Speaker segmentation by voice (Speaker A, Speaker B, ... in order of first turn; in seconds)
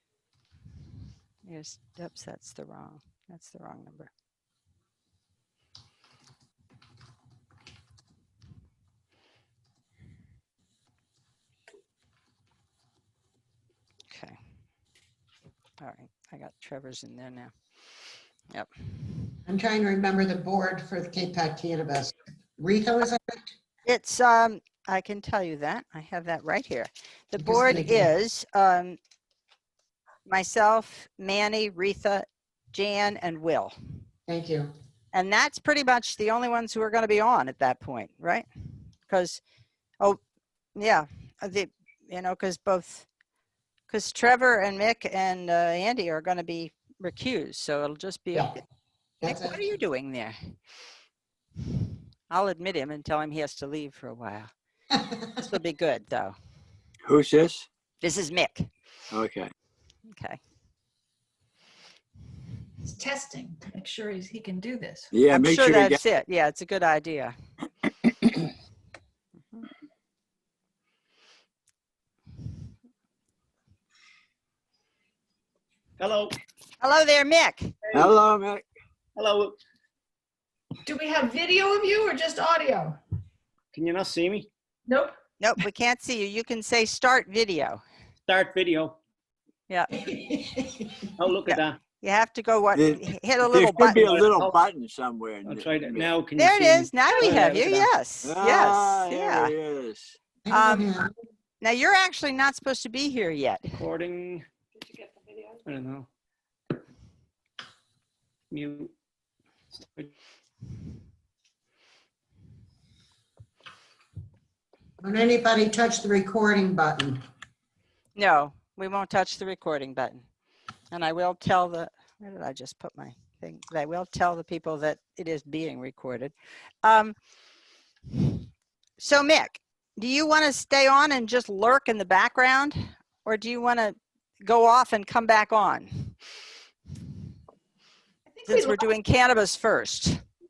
Speaker A: 1.4-4.1, 14.1-14.4, 15.8-17.5, 18.5-19.4, 23.9-29.0, 30.3-33.7, 35.1-38.5, 39.1-39.4, 40.8-43.1, 43.9-48.6, 49.2-50.5, 52.3-54.5, 55.4-56.4, 58.0-58.7, 60.1-60.4, 65.3-67.3, 76.8-77.7, 85.4-87.8, 89.7-90.3, 91.5-94.0, 96.4-99.5, 100.5-100.9, 101.6-103.7, 118.2-120.2, 120.9-127.1, 128.1-128.4, 129.0-136.1, 138.5-140.2
Speaker B: 19.5-23.5, 27.4-28.1, 34.3-34.7, 49.2-49.6, 100.5-101.1, 115.0-117.2
Speaker C: 57.0-57.6, 59.1-59.5, 65.1-66.0, 77.9-78.6, 92.7-96.1, 98.2-100.1
Speaker D: 62.9-65.0, 80.8-82.8, 138.3-138.8
Speaker E: 76.0-76.3, 77.8-78.1, 79.2-79.5, 83.7-84.5, 88.3-89.0, 91.2-91.8, 93.9-94.6, 95.4-97.9, 103.8-106.1, 108.5-108.9, 109.7-110.1